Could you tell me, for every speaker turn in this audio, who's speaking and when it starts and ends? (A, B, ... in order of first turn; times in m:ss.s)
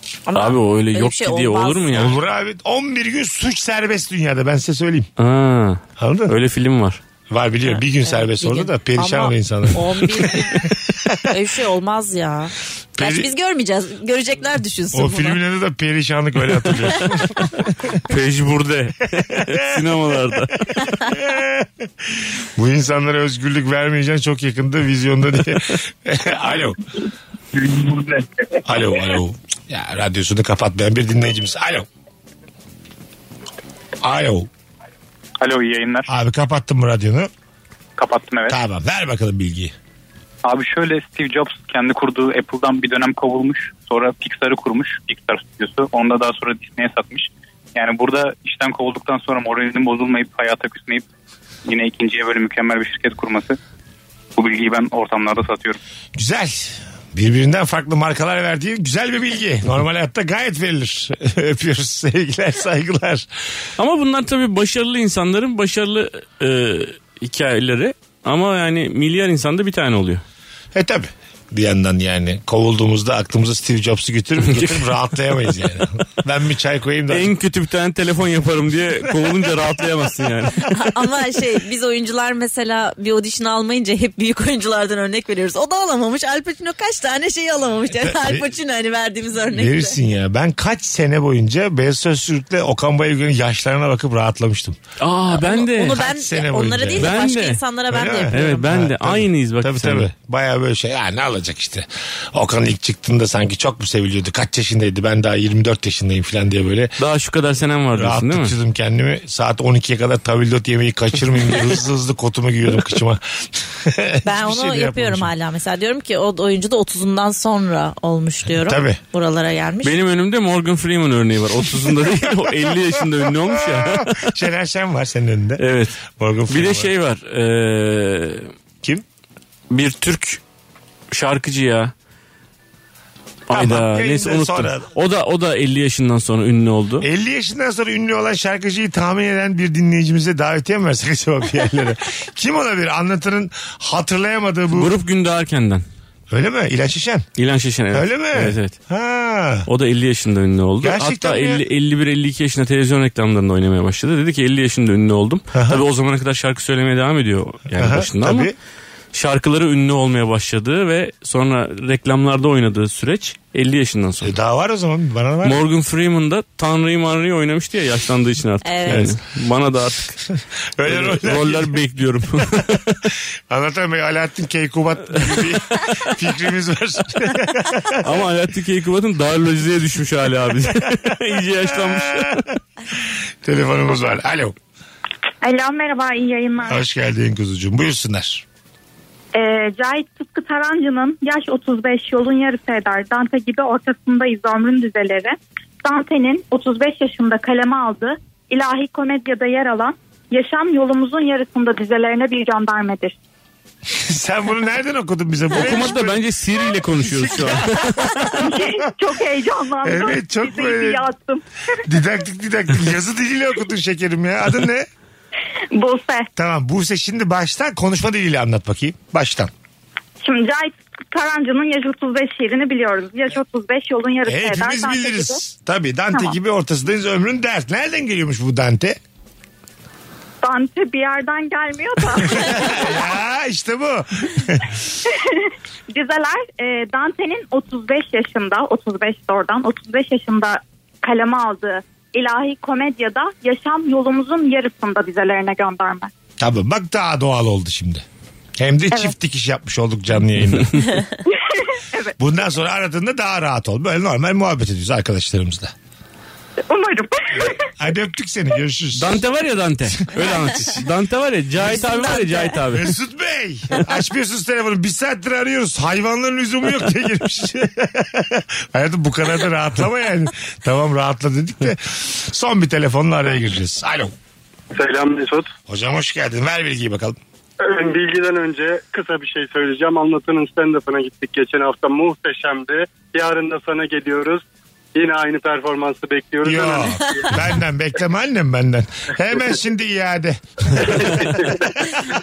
0:00.3-0:01.9 A
0:00.4-0:02.2 B
0:01.9-0:05.1 C
0:05.2-0:07.0 B
0:06.0-0:06.3 C
0:07.3-0:11.2 C
0:07.7-0:10.6 A
0:11.3-0:15.4 A
0:13.0-0:13.3 C
0:14.9-0:18.0 C
0:18.1-0:21.0 B
0:19.5-0:19.8 C
0:21.1-0:26.8 C
0:28.6-0:31.9 C
0:34.0-0:34.5 C
0:35.4-0:36.1 D
0:36.1-0:37.3 C
0:38.0-0:38.6 D
0:38.5-0:39.7 C
0:40.4-0:51.0 D
0:51.6-0:53.6 D
0:54.4-0:55.8 D
0:56.2-1:03.3 C
1:03.8-1:10.2 B
1:10.8-1:17.3 C
1:14.4-1:14.9 B
1:17.1-1:20.7 B
1:20.7-1:30.0 A
1:28.0-1:28.5 C
1:29.5-1:34.8 C
1:35.0-1:36.0 B
1:35.4-1:38.7 A
1:35.9-1:37.2 C
1:37.0-1:37.6 B
1:37.9-1:47.0 C
1:38.3-1:40.1 B
1:47.0-1:48.5 B
1:48.0-1:55.3 C
1:54.2-2:00.0 A
1:58.5-1:59.0 C
1:59.8-2:04.3 B
2:03.6-2:06.9 C
2:05.6-2:08.5 B
2:09.7-2:10.4 B
2:11.1-2:11.9 B
2:13.5-2:17.1 B
2:13.5-2:14.9 C
2:17.0-2:24.9 C
2:24.7-2:25.8 B
2:26.3-2:27.3 C
2:27.4-2:28.8 B
2:27.9-2:29.7 C
2:29.7-2:38.5 B
2:30.8-2:31.6 C
2:35.5-2:35.8 C
2:37.7-2:38.6 C
2:39.1-2:44.3 B
2:44.2-2:45.6 C
2:45.4-2:50.2 B
2:48.6-2:49.1 A
2:48.9-2:49.2 C
2:50.8-2:51.8 C
2:50.9-2:53.0 B
2:53.5-2:58.2 C
2:58.0-3:02.5 B
3:01.7-3:02.4 C
3:03.0-3:04.6 C
3:05.4-3:06.8 E
3:06.6-3:08.4 C
3:09.3-3:23.2 E
3:23.9-3:26.2 C
3:25.5-3:28.3 B
3:26.8-3:28.9 C
3:28.4-3:31.4 E
3:29.8-3:31.0 C
3:31.8-3:34.9 C
3:35.7-3:36.3 E
3:36.4-3:39.5 C
3:40.2-3:45.4 E
3:44.2-3:49.0 C
3:50.4-3:53.0 E
3:52.2-3:54.8 C
3:55.1-4:06.1 E
4:06.4-4:08.0 C
4:08.6-4:10.7 C
4:11.3-4:12.1 E
4:12.2-4:15.7 C
4:16.7-4:17.6 E
4:17.5-4:19.2 C
4:19.0-4:22.9 B
4:20.1-4:20.6 C
4:21.7-4:22.5 A
4:22.7-4:34.1 C
4:34.7-4:35.5 F
4:35.7-4:37.2 C
4:37.6-4:44.4 F
4:45.0-4:47.4 F
4:46.4-4:51.4 C
4:50.9-4:51.7 F